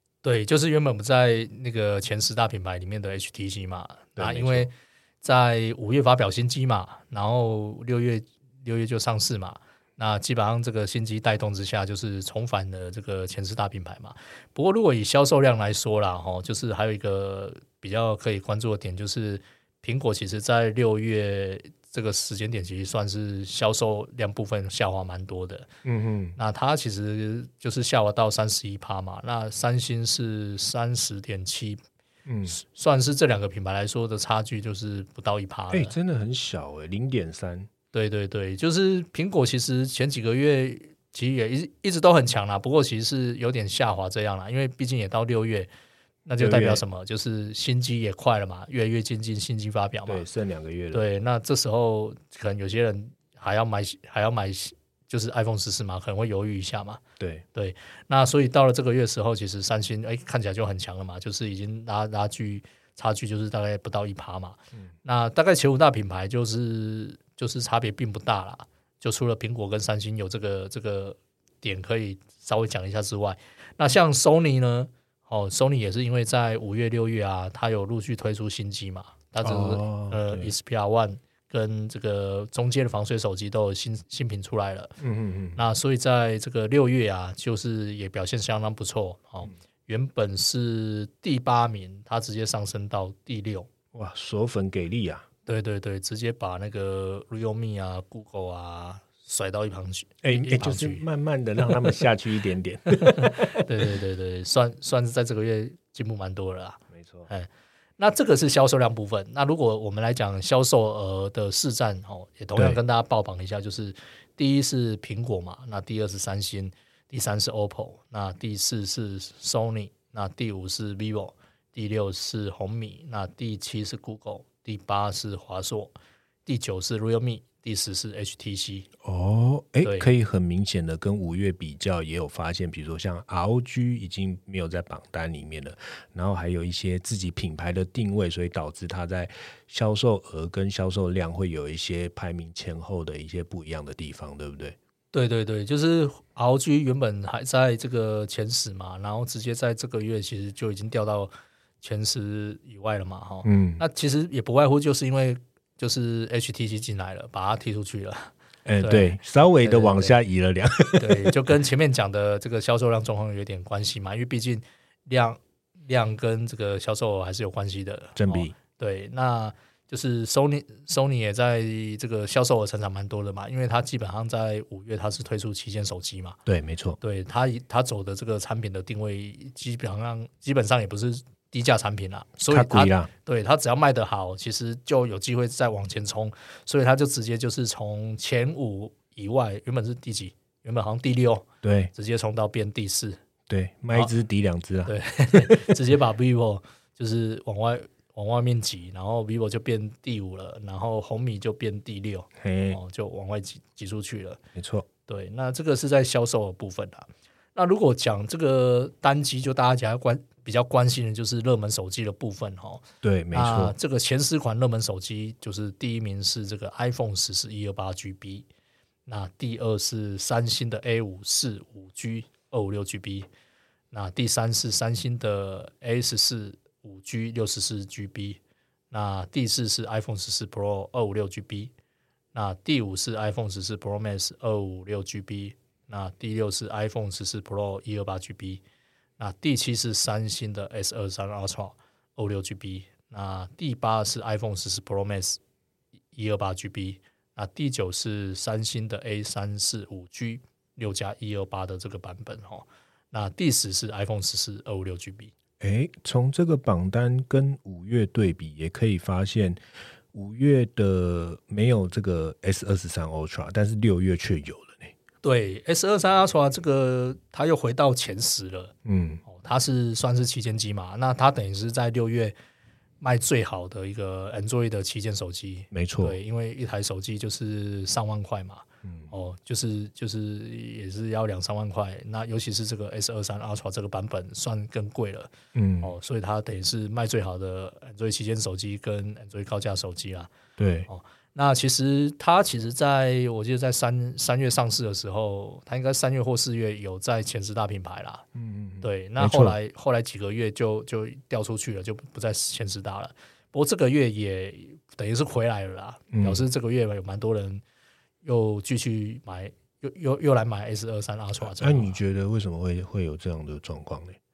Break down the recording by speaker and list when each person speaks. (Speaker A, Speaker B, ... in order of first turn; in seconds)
Speaker A: 0.2-25.7, 26.4-31.8, 32.5-35.9, 37.9-45.7, 46.2-50.3, 50.9-57.0, 57.5-85.0, 85.5-93.7, 95.5-101.0, 103.0-125.9, 126.5-128.9, 129.8-130.1, 145.1-160.2, 161.0-176.4, 177.0-193.2, 194.8-204.4, 205.1-218.4, 219.1-223.3, 223.9-228.4, 228.9-231.7, 232.3-238.6, 239.2-245.4, 246.1-255.3, 265.2-268.7, 269.2-272.3, 273.0-290.3, 290.9-298.2, 298.8-307.6, 308.2-312.0
Speaker B: 4.2-4.7, 25.8-26.4, 32.3-32.6, 35.7-37.7, 46.4-46.8, 50.0-51.0, 57.2-57.4, 79.4-80.5, 85.0-85.6, 93.9-95.2, 100.2-103.6, 106.9-107.3, 129.0-144.8, 153.4-153.8, 158.7-161.3, 168.2-168.5, 176.4-177.0, 182.5-183.1, 191.6-191.9, 193.5-195.7, 202.4-202.8, 204.5-204.9, 213.0-213.8, 255.6-259.6, 260.1-264.9, 268.8-269.2, 275.7-276.2, 285.5-285.9, 290.6-290.9, 298.4-299.6, 306.1-306.4, 311.5-314.2